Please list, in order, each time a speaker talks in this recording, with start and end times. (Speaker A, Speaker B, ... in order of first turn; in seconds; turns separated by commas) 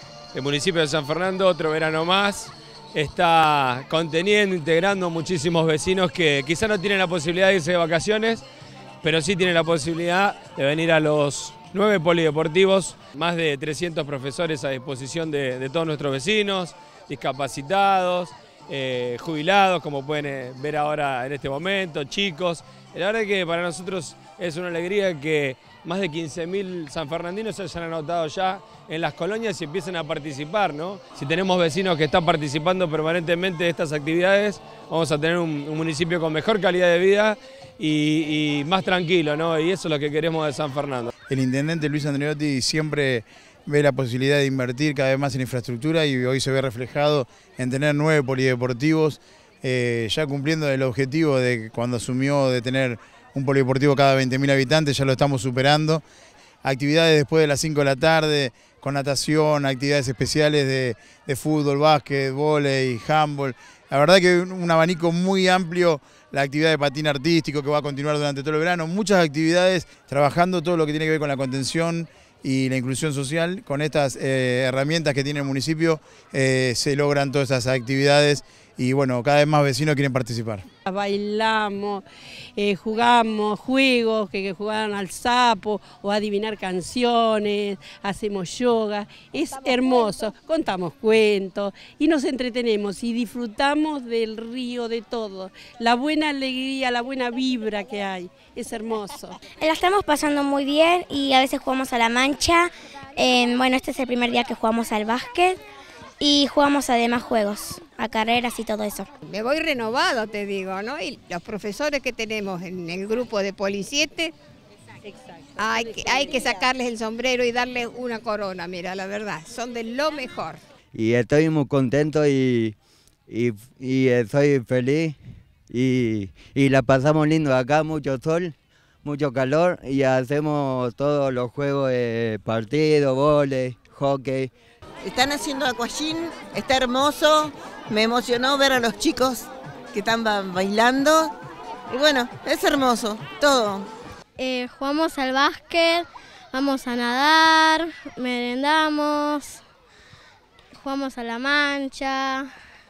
Speaker A: 0.3-8.4, Speaker A: 9.0-41.1, Speaker B: 41.3-56.0, Speaker B: 56.6-80.6, Speaker C: 80.9-82.0, Speaker C: 82.6-99.4, Speaker D: 99.6-105.6, Speaker D: 106.2-109.1, Speaker E: 109.2-114.3, Speaker C: 115.0-116.7, Speaker E: 115.6-120.6, Speaker F: 120.9-122.8, Speaker F: 123.3-125.2, Speaker F: 125.7-134.5, Speaker G: 135.0-141.3, Speaker G: 141.9-143.9, Speaker H: 144.4-149.6, Speaker H: 150.8-152.5